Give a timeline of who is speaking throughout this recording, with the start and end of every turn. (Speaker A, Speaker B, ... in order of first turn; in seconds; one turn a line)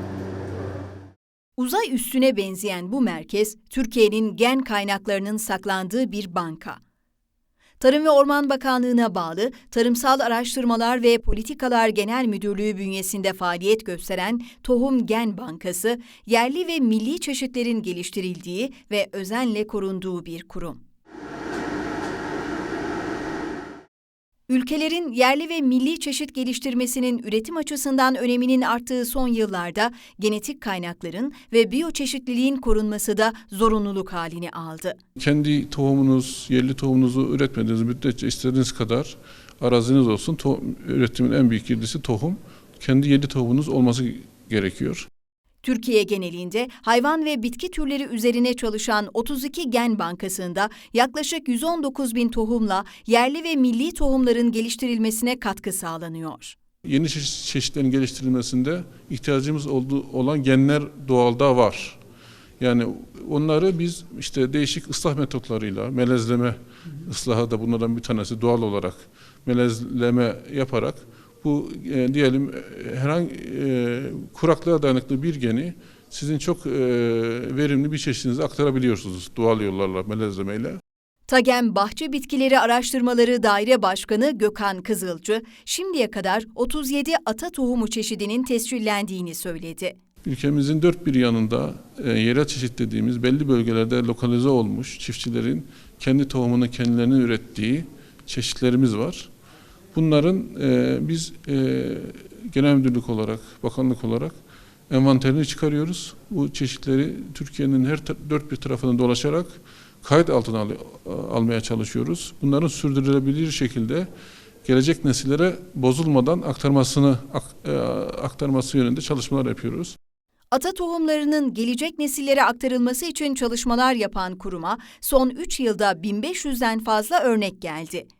Speaker A: 1.6-6.8
Speaker A: 7.8-20.8
Speaker A: 24.5-35.0
Speaker B: 35.2-45.1
Speaker A: 45.6-56.5
Speaker B: 56.9-62.0
Speaker B: 62.6-80.8
Speaker A: 81.3-90.0
Speaker B: 90.2-99.3
Speaker B: 99.9-104.3
Speaker B: 104.9-114.1
Speaker B: 114.6-120.0
Speaker A: 120.5-128.1